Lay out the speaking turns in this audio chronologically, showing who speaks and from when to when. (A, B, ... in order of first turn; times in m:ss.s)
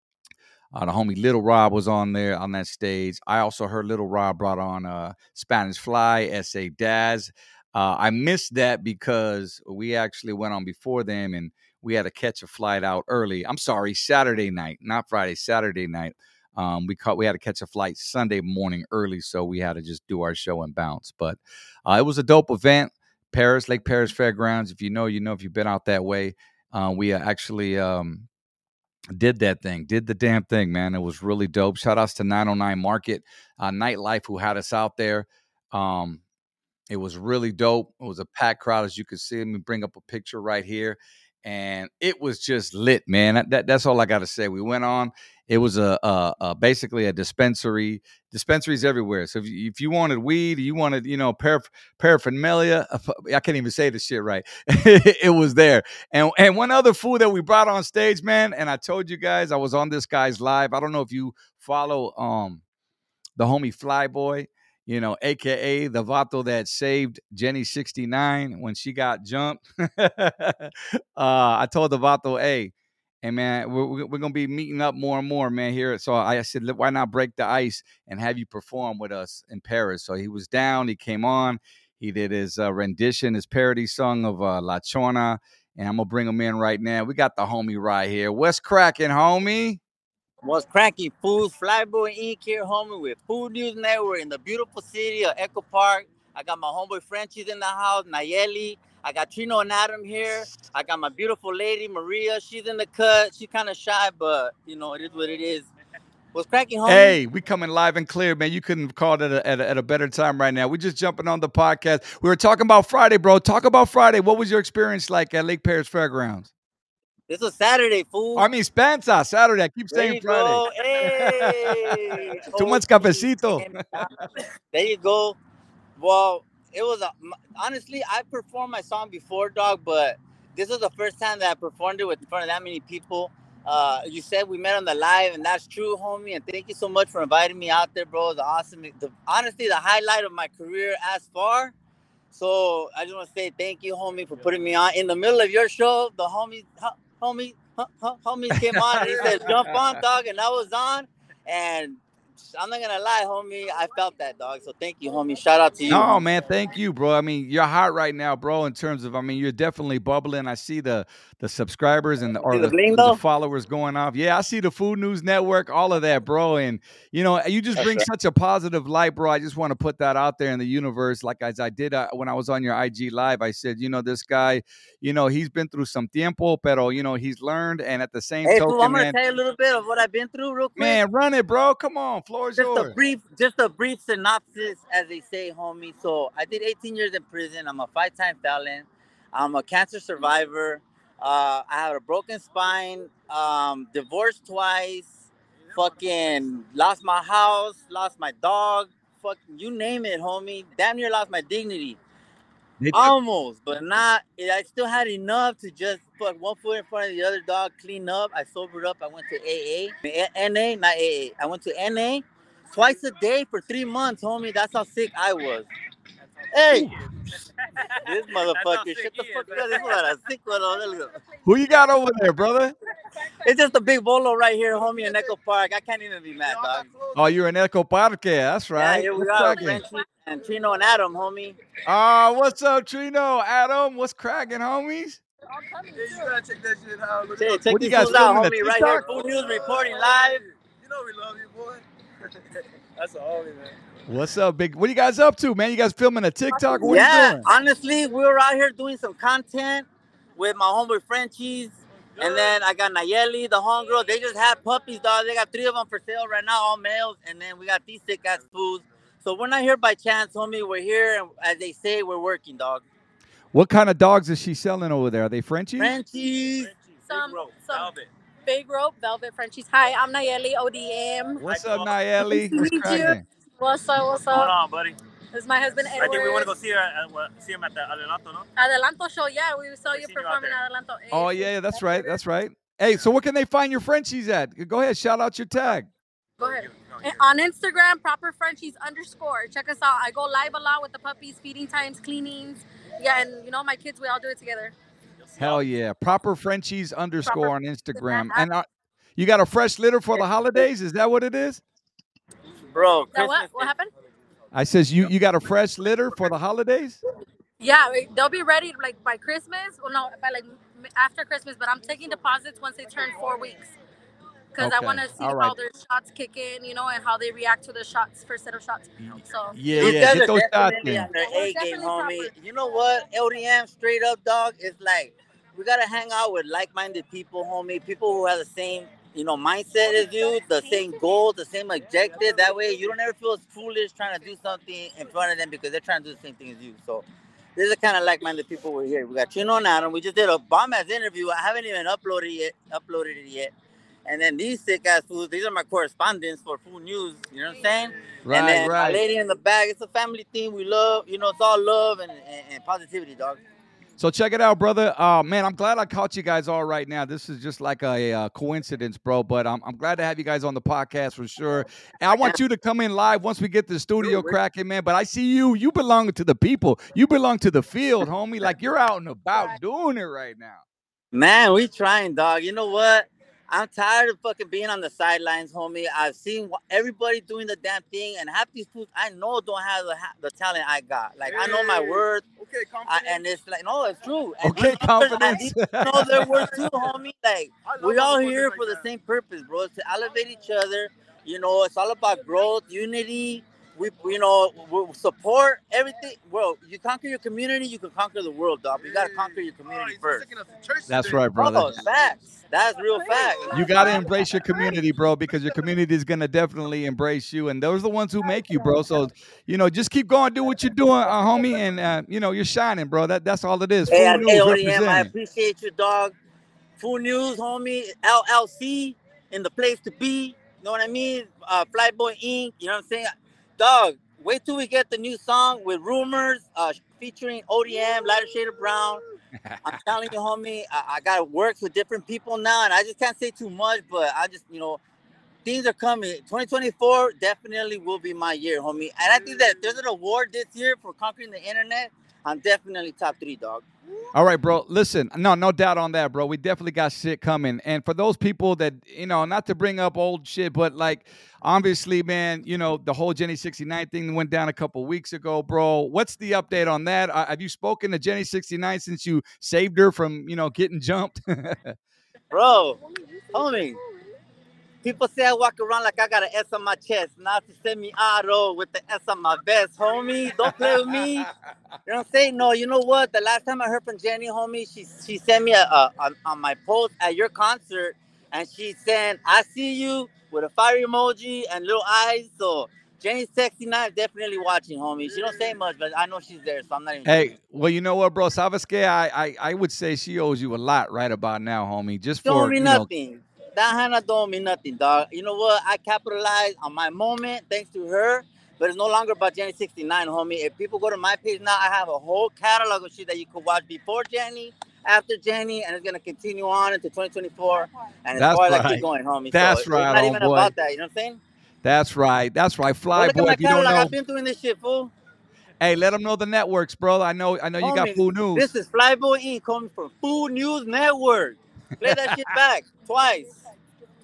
0:00.7-0:28.3 A
0:29.1-0:36.2 A
0:36.9-1:02.6 A
1:03.4-1:29.8 A
1:30.4-1:45.7 B
1:46.3-1:47.2 B
1:46.8-1:56.5 A
1:57.3-1:58.4 B
1:58.3-2:04.2 A
1:59.9-2:04.1 B
2:04.7-2:05.4 B
2:06.0-2:21.7 B
2:22.3-2:32.0 B
2:28.5-2:30.0 A
2:29.0-2:29.4 C
2:32.5-2:36.2 B
2:35.9-2:59.2 A
2:42.5-2:43.2 B
2:47.8-2:48.0 B
2:58.4-3:01.0 B
3:00.8-3:02.9 A
3:02.6-3:15.1 B
3:15.7-3:22.0 B
3:22.8-3:23.1 A
3:22.9-3:35.7 B
3:36.5-3:36.9 B
3:36.7-3:37.0 D
3:37.7-3:40.0 D
3:38.0-3:41.2 B
3:41.4-3:42.7 A
3:43.4-3:46.8 B
3:44.8-3:45.3 C
3:46.4-3:47.3 C
3:47.1-3:49.8 A
3:48.8-3:51.6 B
3:51.8-3:55.2 A
3:55.5-3:56.3 E
3:55.9-4:01.8 C
3:57.4-4:00.4 B
3:57.7-3:59.0 A
4:02.6-4:03.8 C
4:04.1-4:07.5 A
4:06.8-4:22.8 B
4:12.2-4:12.5 C
4:23.5-4:26.0 A
4:25.8-4:26.7 B
4:26.6-4:28.1 D
4:27.0-4:27.9 E
4:28.4-4:31.4 E
4:31.4-4:33.2 A
4:31.4-4:31.9 D
4:32.2-4:34.5 E
4:34.3-4:35.0 D
4:35.3-4:36.5 E
4:35.9-4:38.5 D
4:38.6-4:42.1 E
4:39.9-4:40.6 D
4:41.1-4:45.9 A
4:46.4-4:54.7 E
4:46.4-4:47.2 D
4:55.3-4:55.6 D
4:55.4-5:01.6 A
4:57.2-4:58.5 E
5:02.7-5:03.7 B
5:03.1-5:03.9 E
5:04.5-5:07.0 A
5:07.6-5:13.7 E
5:14.5-5:20.2 E
5:14.6-5:15.5 A
5:19.5-5:21.1 A
5:19.8-5:43.5 B
5:21.2-5:22.3 E
5:44.0-5:53.4 B
5:48.2-5:49.0 A
5:54.0-6:10.6 A
6:02.1-6:02.4 B
6:11.1-6:22.2 B
6:21.2-6:23.2 C
6:22.8-6:40.3 B
6:24.4-6:26.8 A
6:27.6-6:28.8 C
6:38.8-6:41.7 C
6:40.9-6:41.8 A
6:41.4-6:44.0 B
6:43.2-6:44.0 E
6:43.5-6:55.1 A
6:53.9-6:56.1 B
6:56.8-7:09.0 B
7:09.4-7:09.8 A
7:09.6-7:14.8 B
7:15.4-7:23.6 B
7:24.1-7:41.8 A
7:42.3-7:42.8 B
7:42.8-7:44.0 E
7:43.3-7:43.8 B
7:44.8-7:51.3 B
7:50.5-7:51.0 A
7:51.8-8:07.3 B
8:07.0-8:12.9 A
8:12.2-8:31.2 B
8:28.1-8:30.5 A
8:31.6-8:33.9 A
8:32.9-8:34.9 B
8:35.6-8:38.5 A
8:37.6-8:43.3 B
8:41.8-8:42.2 A